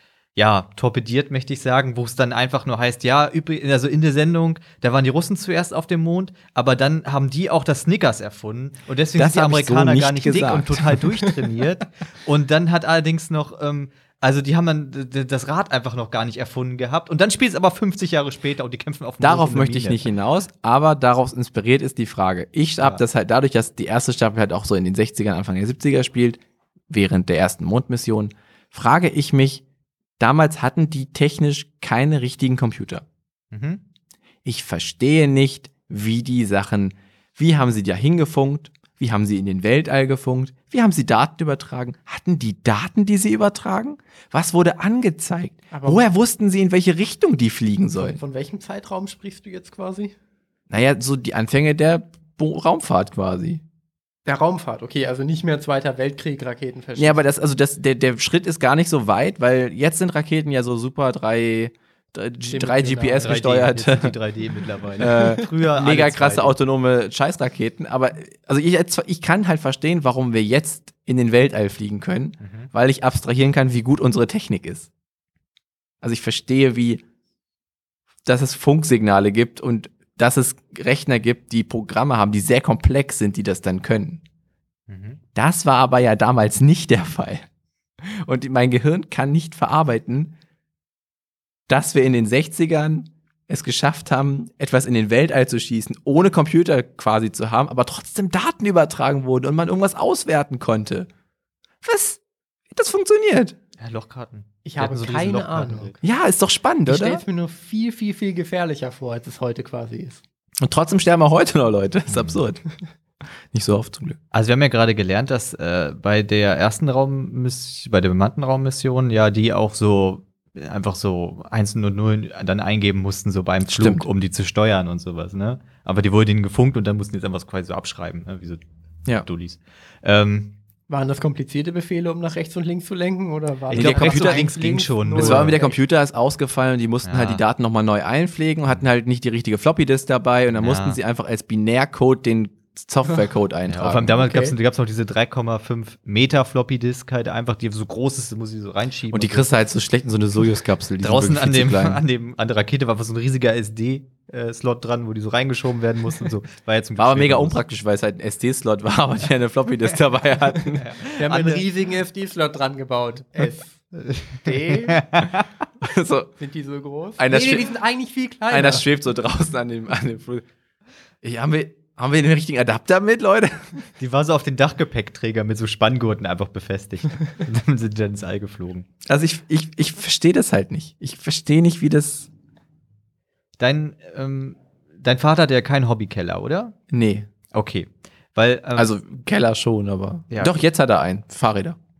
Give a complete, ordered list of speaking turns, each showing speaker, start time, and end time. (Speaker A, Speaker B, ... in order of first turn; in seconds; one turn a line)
Speaker A: 0.3-20.1
Speaker B: 9.2-11.0
Speaker B: 19.2-29.6
Speaker B: 30.2-33.0
Speaker A: 33.5-33.8
Speaker B: 34.4-48.2
Speaker C: 45.7-46.0
Speaker C: 47.9-50.1
Speaker B: 50.7-53.6
Speaker C: 54.2-57.2
Speaker B: 57.0-64.1
Speaker C: 62.5-63.4
Speaker A: 63.2-66.5
Speaker B: 65.0-74.9
Speaker C: 65.0-65.3
Speaker A: 72.4-72.7
Speaker B: 76.0-77.0
Speaker B: 78.2-84.2
Speaker A: 84.9-85.2
Speaker B: 85.3-87.4
Speaker B: 88.0-90.3
Speaker B: 91.7-101.1
Speaker B: 101.8-103.5
Speaker A: 103.8-105.9
Speaker C: 104.6-106.0
Speaker B: 106.0-107.2
Speaker C: 106.9-110.2
Speaker B: 110.6-112.6
Speaker A: 112.1-112.4
Speaker B: 113.5-114.2
Speaker A: 114.3-128.6
Speaker B: 123.7-124.1
Speaker A: 129.2-130.5
Speaker C: 130.9-135.8
Speaker B: 133.7-134.5
Speaker A: 133.7-135.6
Speaker B: 135.2-144.3
Speaker A: 137.1-137.4
Speaker A: 140.5-141.0
Speaker A: 143.7-149.5
Speaker C: 144.2-144.5
Speaker B: 149.1-152.0
Speaker A: 151.0-157.6
Speaker B: 157.0-160.8
Speaker A: 160.7-161.6
Speaker C: 161.2-165.0
Speaker A: 163.4-165.5
Speaker B: 165.8-166.3
Speaker C: 166.4-168.8
Speaker B: 167.2-167.7
Speaker B: 168.5-170.4
Speaker B: 171.2-173.8
Speaker A: 174.0-178.9
Speaker B: 179.1-182.3
Speaker A: 183.6-186.7
Speaker B: 186.9-187.3
Speaker A: 187.5-188.9
Speaker B: 188.7-191.8
Speaker A: 190.3-190.6